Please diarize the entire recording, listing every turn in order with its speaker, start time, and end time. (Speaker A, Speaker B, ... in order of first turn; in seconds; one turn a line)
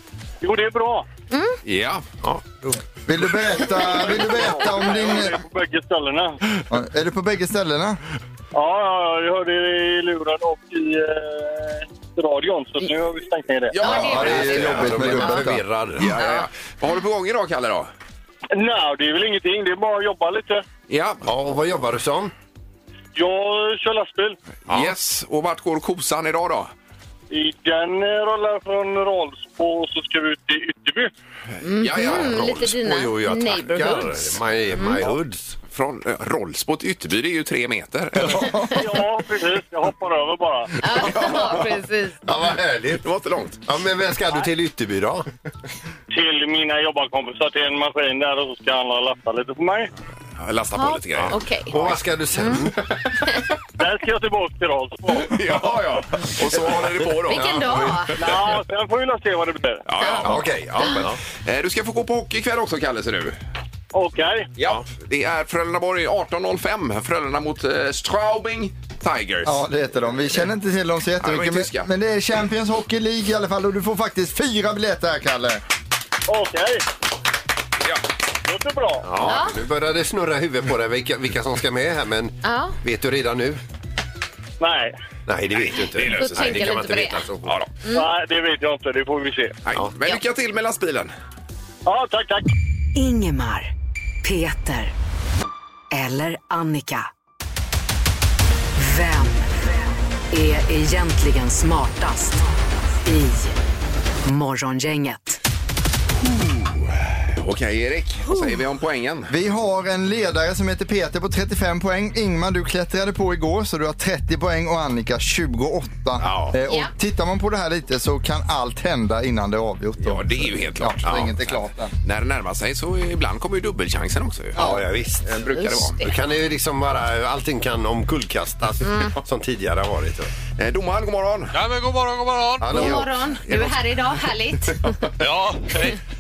Speaker A: 0.4-1.1
Speaker B: 1.3-1.6
Speaker C: 1.6-2.0
Speaker D: 2.2-2.8
Speaker E: 3.0-5.3
Speaker A: 3.8-6.4
Speaker E: 6.7-8.0
Speaker A: 8.5-13.8
Speaker C: 13.7-15.0
Speaker B: 13.8-15.4
Speaker E: 13.8-15.6
Speaker D: 14.1-16.1
Speaker C: 16.0-17.9
Speaker B: 16.0-16.5
Speaker A: 18.5-20.6
Speaker C: 20.9-21.3
Speaker D: 21.2-22.3
Speaker A: 23.1-24.4
Speaker D: 24.7-24.9
Speaker C: 24.7-26.7
Speaker A: 27.3-31.1
Speaker C: 31.6-32.6
Speaker B: 31.6-35.0
Speaker D: 31.9-35.6
Speaker C: 35.7-38.6
Speaker A: 38.7-40.7
Speaker B: 40.8-42.2
Speaker C: 41.0-41.7
Speaker D: 42.2-43.0
Speaker C: 43.0-43.6
Speaker D: 43.7-45.3
Speaker A: 46.1-49.9
Speaker C: 50.4-52.0
Speaker B: 50.8-51.8
Speaker D: 51.2-52.8
Speaker B: 52.4-52.7
Speaker A: 53.8-55.3
Speaker C: 55.2-58.6
Speaker D: 56.5-58.0
Speaker B: 57.3-58.1
Speaker A: 58.2-59.8
Speaker C: 59.9-63.4
Speaker B: 60.0-60.3
Speaker D: 60.2-61.2
Speaker A: 63.9-64.5
Speaker C: 64.6-69.5
Speaker E: 69.4-75.6
Speaker C: 71.2-71.9
Speaker A: 76.3-76.8
Speaker A: 78.5-79.1
Speaker D: 79.0-83.6
Speaker B: 79.2-79.6
Speaker B: 82.4-82.8
Speaker A: 84.6-85.0
Speaker D: 85.3-87.5
Speaker C: 85.5-86.8
Speaker B: 86.1-87.2
Speaker C: 87.4-87.7
Speaker A: 87.9-89.6
Speaker C: 89.6-91.1
Speaker A: 91.8-92.5
Speaker F: 92.9-93.7
Speaker F: 94.2-94.9
Speaker F: 95.9-97.1
Speaker F: 98.8-99.5
Speaker F: 100.3-102.4
Speaker F: 103.0-103.6
Speaker F: 104.2-105.4
Speaker C: 106.3-109.3
Speaker B: 108.3-108.5
Speaker E: 109.3-121.9
Speaker D: 116.3-116.5
Speaker C: 120.0-124.7
Speaker D: 121.0-121.3
Speaker E: 124.5-124.8
Speaker D: 124.6-125.3
Speaker C: 125.2-126.0
Speaker B: 125.5-126.1
Speaker D: 126.0-130.3
Speaker B: 128.8-129.2
Speaker C: 130.6-131.5
Speaker G: 131.5-132.9
Speaker D: 132.6-133.0
Speaker C: 132.7-133.9
Speaker B: 132.7-135.0
Speaker G: 135.2-136.0